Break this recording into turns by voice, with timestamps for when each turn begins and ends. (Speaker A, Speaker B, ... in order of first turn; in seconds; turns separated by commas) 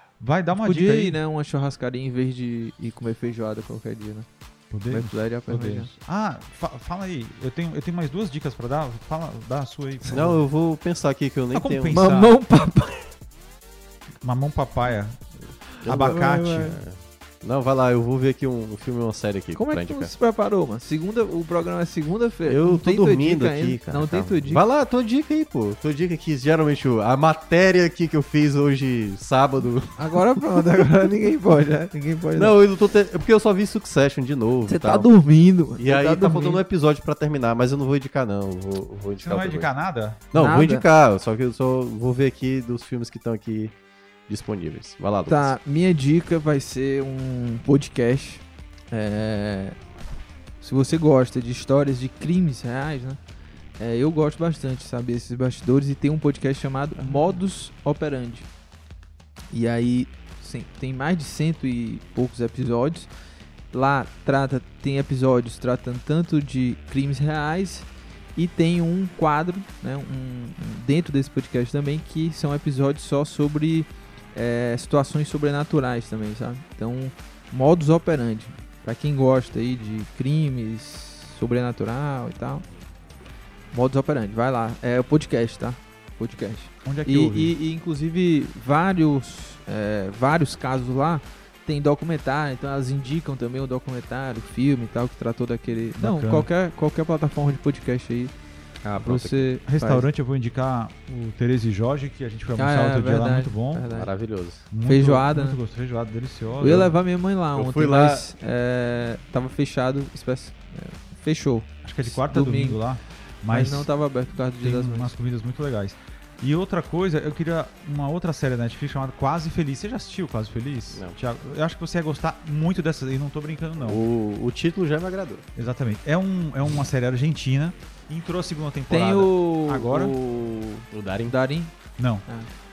Speaker A: 0.2-1.2, Speaker B: 0.5-4.3, Speaker A: 4.7-10.4, Speaker B: 4.9-5.9, Speaker C: 10.1-12.0, Speaker A: 11.5-12.4, Speaker B: 11.9-13.1, Speaker A: 14.2-15.2, Speaker A: 15.8-16.8, Speaker C: 15.8-20.1, Speaker B: 15.9-16.8, Speaker B: 19.5-24.6, Speaker C: 22.4-30.0, Speaker B: 29.9-32.6, Speaker C: 32.3-35.1, Speaker B: 34.6-36.6, Speaker C: 35.8-39.7, Speaker A: 39.2-40.2, Speaker C: 40.3-43.7, Speaker B: 40.3-40.8, Speaker C: 44.3-45.5, Speaker B: 45.3-49.8, Speaker B: 50.6-53.2, Speaker B: 53.8-58.5, Speaker B: 59.5-63.1, Speaker B: 63.7-82.6, Speaker B: 83.7-98.3, Speaker A: 86.8-87.5, Speaker A: 96.0-96.5, Speaker C: 98.8-99.5, Speaker B: 99.0-100.0, Speaker A: 99.7-103.9, Speaker B: 102.6-104.1, Speaker C: 103.9-104.6, Speaker A: 104.7-106.9, Speaker B: 104.9-105.6, Speaker B: 106.6-112.8, Speaker C: 107.5-108.2, Speaker A: 111.8-113.9, Speaker B: 113.5-115.1, Speaker A: 114.6-124.0, Speaker C: 123.8-125.4, Speaker A: 125.5-130.1, Speaker B: 128.9-131.7, Speaker C: 130.9-131.3, Speaker A: 132.0-132.2